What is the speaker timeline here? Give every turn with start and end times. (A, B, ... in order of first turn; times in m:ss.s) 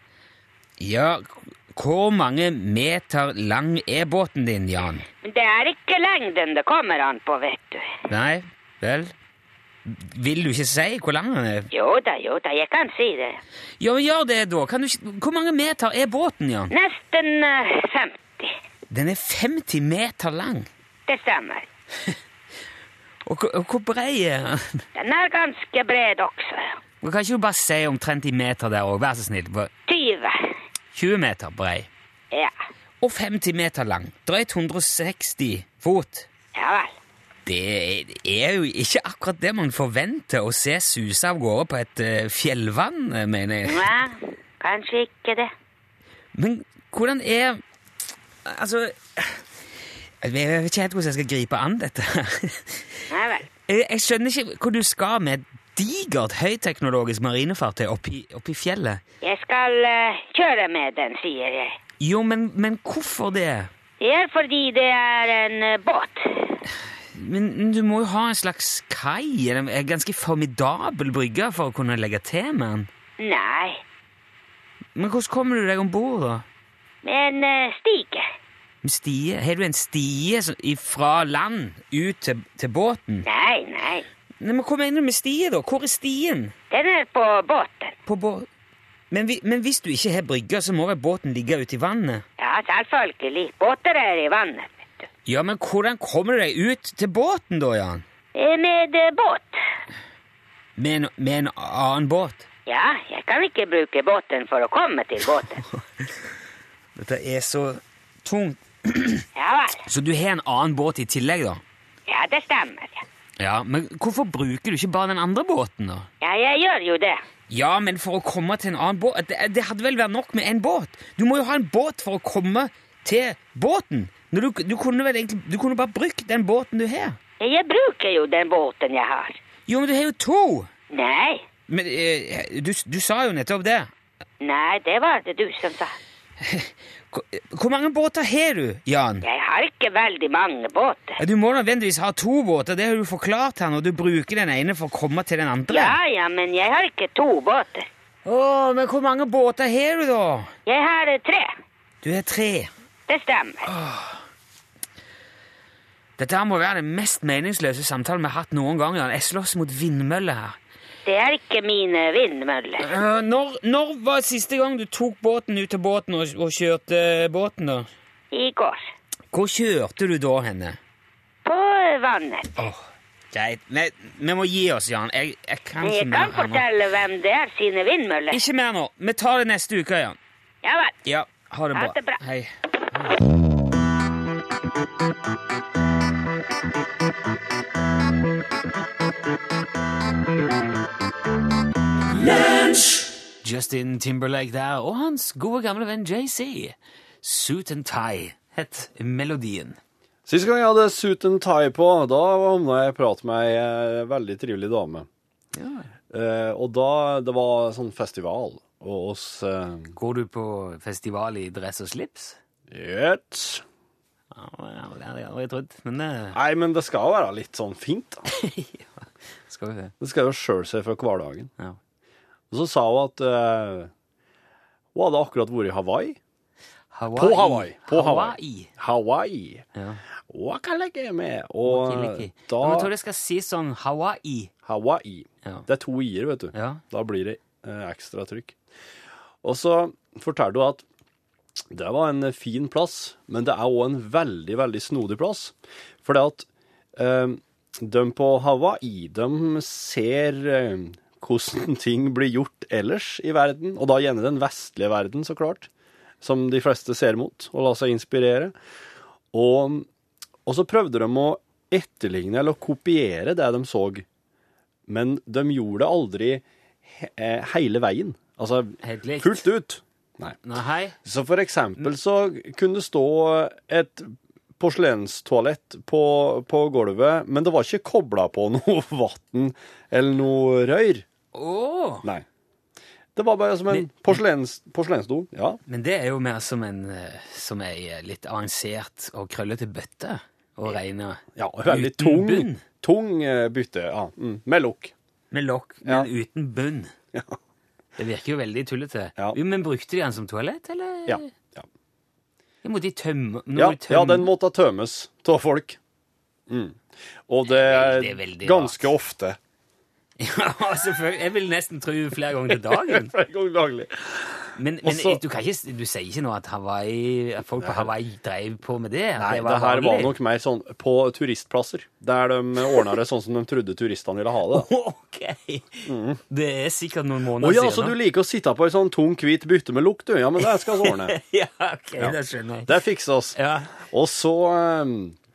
0:00.8-0:05.1 A
0:05.2-0:07.9 B
0:08.1-0:09.1 A
0:09.8-0:11.7 A
0:11.7-0:13.4 B
0:13.8-0:16.7 A
0:16.7-0:18.6 B
0:18.9-0:20.7 A
0:21.1-0:21.7 B
0:23.2-0:24.8 A
0:25.0-0:26.8 B
0:27.0-0:29.7 A
0:29.9-0:30.5 B
0:30.9-0:31.9 A
0:33.0-0:36.3 A
0:36.6-0:36.9 B
0:37.4-0:43.9 A
0:43.7-0:45.5 B
0:46.4-0:47.6 A
0:48.4-0:49.4 A
0:50.2-0:53.0 A
0:53.1-0:53.5 B
0:53.7-0:59.0 A
0:59.2-1:01.8 B
1:02.0-1:03.7 A
1:04.0-1:06.6 B
1:07.1-1:12.9 A
1:13.2-1:13.8 B
1:15.0-1:16.4 A
1:17.0-1:18.3 B
1:18.8-1:23.3 A
1:23.3-1:24.1 B
1:24.4-1:26.5 A
1:26.7-1:28.0 B
1:28.1-1:28.5 A
1:29.1-1:32.2 A
1:32.4-1:35.1 B
1:35.3-1:38.0 A
1:38.4-1:39.6 B
1:40.8-1:42.5 A
1:42.7-1:45.6 B
1:47.0-1:49.3 A
1:49.4-1:49.8 B
1:49.9-1:51.6 A
1:52.1-1:53.0 B
1:53.4-1:56.1 A
1:56.2-1:57.2 B
1:57.5-2:07.2 A
2:07.4-2:09.4 B
2:09.7-2:10.7 A
2:10.9-2:11.4 B
2:11.7-2:13.9 A
2:14.4-2:15.9 B
2:16.4-2:19.2 A
2:19.2-2:21.2 B
2:21.2-2:26.0 A
2:25.7-2:27.9 B
2:28.2-2:30.5 A
2:30.7-2:31.5 B
2:32.0-2:32.7 A
2:33.1-2:33.7 B
2:33.7-2:34.2 A
2:36.2-2:40.6 A
2:41.0-2:42.9 B
2:42.8-2:47.9 A
2:48.3-2:48.8 B
2:49.3-2:50.8 A
2:51.4-2:52.5 B
2:52.6-2:56.6 A
2:55.8-2:58.4 B
2:58.3-3:00.2 A
3:00.6-3:01.0 B
3:01.0-3:03.2 A
3:01.7-3:02.2 B
3:13.4-3:19.8 A
3:20.3-3:25.1 C
3:25.6-3:25.9 A
3:26.1-3:30.0 C
3:30.0-3:32.4 A
3:32.7-3:33.6 C
3:34.3-3:36.4 A
3:36.3-3:38.2 C
3:38.3-3:39.9 A
3:40.0-3:41.5 C
3:42.5-3:43.9 C
3:45.0-3:46.2 C
3:46.9-3:48.7 A
3:47.2-3:49.6 C
3:49.8-3:50.0 A
3:50.3-3:52.9 C
3:51.6-3:54.5 A
3:54.6-3:58.6 C
3:56.5-3:56.8 A
3:59.4-4:00.8 C
4:01.7-4:15.7 C
4:16.2-4:18.6 C
4:19.3-4:19.9 C
4:20.5-4:24.1 C
4:24.9-4:30.4 C
4:28.8-4:29.5 A
4:30.4-4:31.0 A
4:31.0-4:41.0 C
4:41.3-4:42.1 A
4:43.2-4:45.6 C
4:43.7-4:44.2 A
4:45.7-4:52.6 A
4:51.4-4:54.9 C
4:55.3-4:56.9 A
4:58.0-5:01.3 A
5:01.1-5:01.7 C
5:02.6-5:04.3 A
5:03.6-5:05.8 C
5:06.5-5:09.4 C
5:07.5-5:08.9 A
5:10.2-5:13.1 A
5:12.5-5:15.2 C
5:14.6-5:20.2 A
5:17.6-5:17.9 C
5:19.2-5:24.7 C
5:24.5-5:28.0 A
5:25.9-5:26.2 C
5:27.4-5:31.2 C
5:30.4-5:32.7 A
5:32.0-5:35.2 C
5:33.4-5:33.7 A